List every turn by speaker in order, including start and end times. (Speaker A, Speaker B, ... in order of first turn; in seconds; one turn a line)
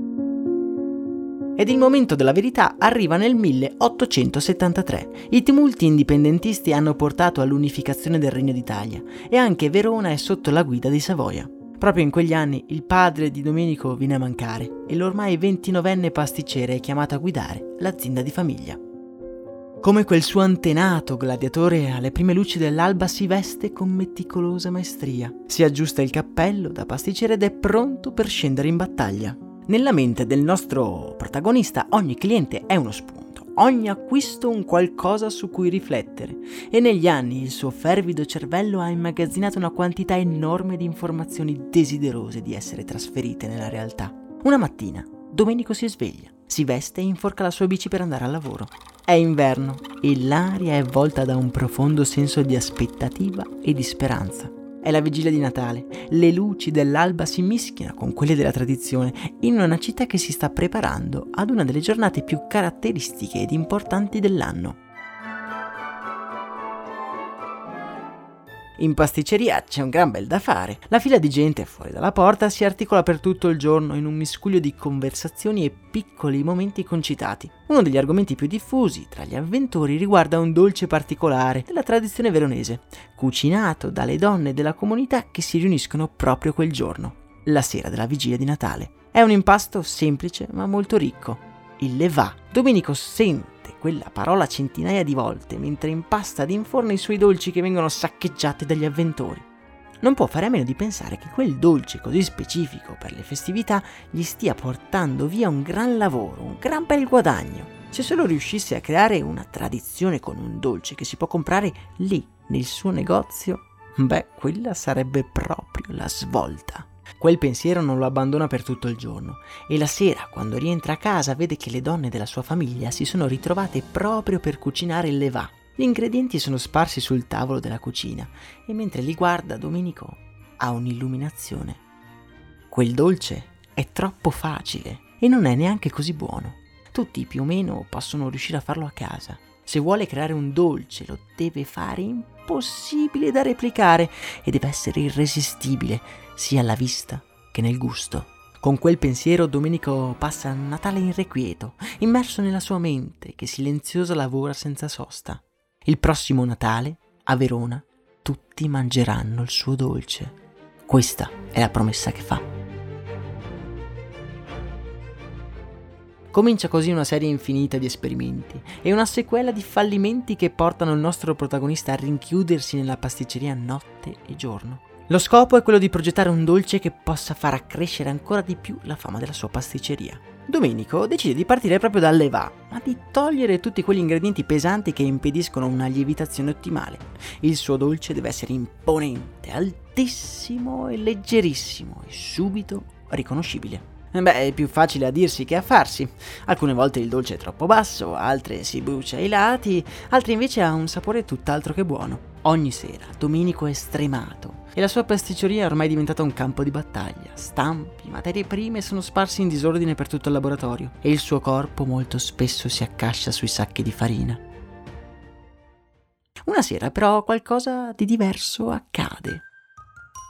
Speaker A: 1.6-18.8
Speaker A: 19.8-64.8
Speaker A: 68.8-99.5
Speaker A: 100.0-131.8
Speaker A: 132.7-162.4
Speaker A: 166.3-214.4
Speaker A: 216.4-219.4